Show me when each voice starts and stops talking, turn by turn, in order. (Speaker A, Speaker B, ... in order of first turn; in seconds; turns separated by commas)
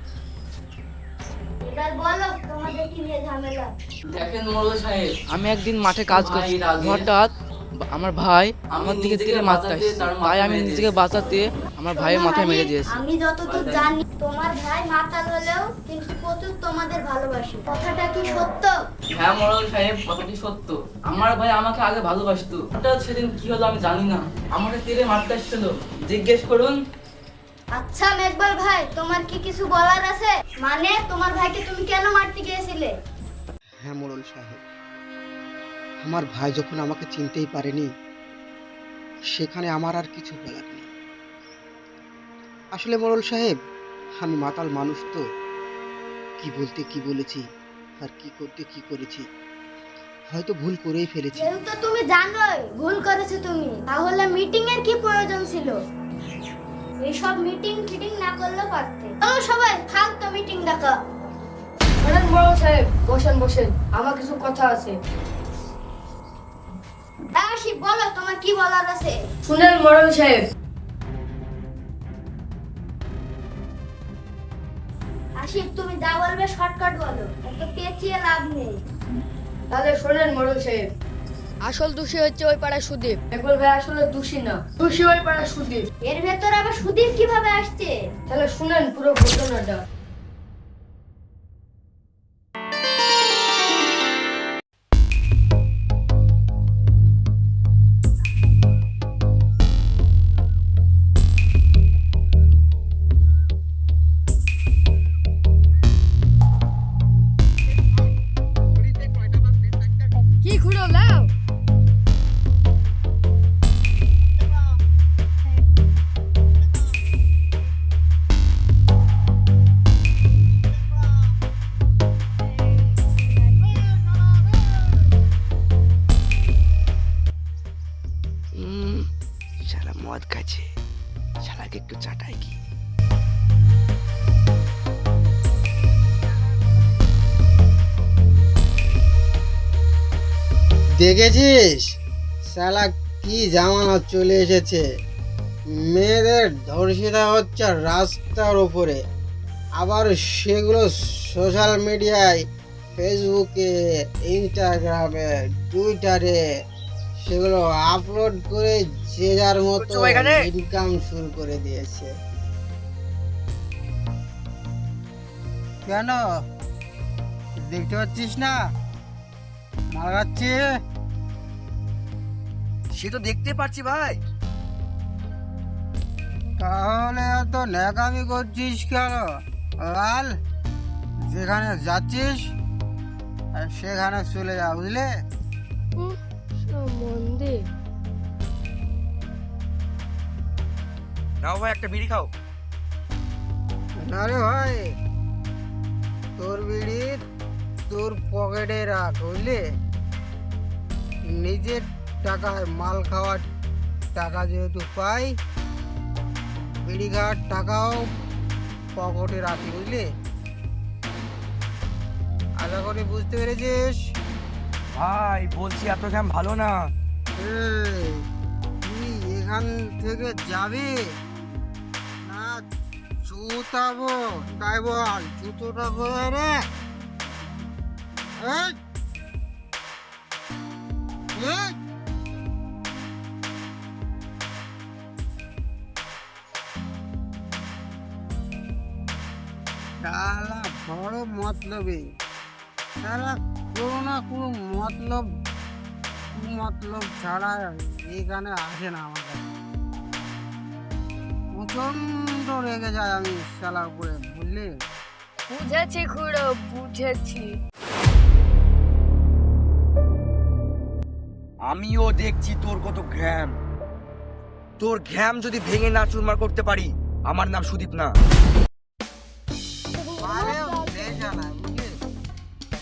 Speaker A: 1.6-3.7, Speaker B: 4.1-5.3, Speaker C: 5.3-7.3, Speaker B: 6.1-7.1, Speaker C: 7.8-13.0, Speaker B: 8.7-11.0, Speaker A: 11.9-18.8, Speaker B: 13.4-13.9, Speaker B: 19.1-26.8, Speaker A: 27.7-32.9, Speaker D: 33.8-34.6, Speaker D: 36.0-37.9, Speaker D: 39.3-40.9, Speaker D: 42.7-43.5, Speaker D: 44.2-45.2, Speaker D: 46.4-47.4, Speaker D: 48.0-49.2, Speaker D: 50.3-51.5, Speaker A: 51.4-55.8, Speaker A: 57.0-61.0, Speaker E: 62.0-64.9, Speaker A: 67.3-69.2, Speaker E: 69.5-70.4, Speaker A: 75.4-78.8, Speaker E: 79.7-80.8, Speaker E: 81.6-85.8, Speaker A: 86.0-87.9, Speaker E: 88.3-89.8, Speaker D: 108.9-109.8, Speaker E: 110.3-111.3, Speaker F: 128.7-129.0, Speaker F: 129.7-130.6, Speaker F: 131.5-132.4, Speaker D: 141.0-141.8, Speaker D: 142.5-144.8, Speaker D: 145.8-149.0, Speaker D: 149.8-152.4, Speaker D: 153.0-156.4, Speaker D: 157.2-162.1, Speaker F: 159.8-160.5, Speaker D: 165.8-166.2, Speaker D: 167.7-168.6, Speaker D: 169.9-170.6, Speaker F: 172.9-174.2, Speaker D: 176.6-179.2, Speaker D: 179.8-180.3, Speaker D: 181.3-182.4, Speaker D: 183.6-185.1, Speaker E: 186.7-187.6, Speaker F: 191.4-192.3, Speaker D: 194.0-194.9, Speaker D: 196.4-197.2, Speaker D: 197.9-199.6, Speaker D: 201.3-203.4, Speaker D: 204.1-205.4, Speaker D: 206.8-208.1, Speaker D: 209.0-210.1, Speaker D: 212.6-214.0, Speaker F: 214.9-216.8, Speaker D: 217.4-218.2, Speaker D: 218.8-221.1, Speaker D: 222.2-222.6, Speaker D: 223.2-226.6, Speaker D: 228.4-228.8, Speaker D: 231.4-231.8, Speaker D: 240.0-242.1, Speaker D: 243.0-245.3, Speaker D: 246.4-249.4, Speaker D: 251.6-254.8, Speaker E: 255.5-257.5, Speaker F: 261.7-263.5, Speaker F: 264.8-268.1, Speaker A: 270.0-270.8, Speaker D: 270.2-271.9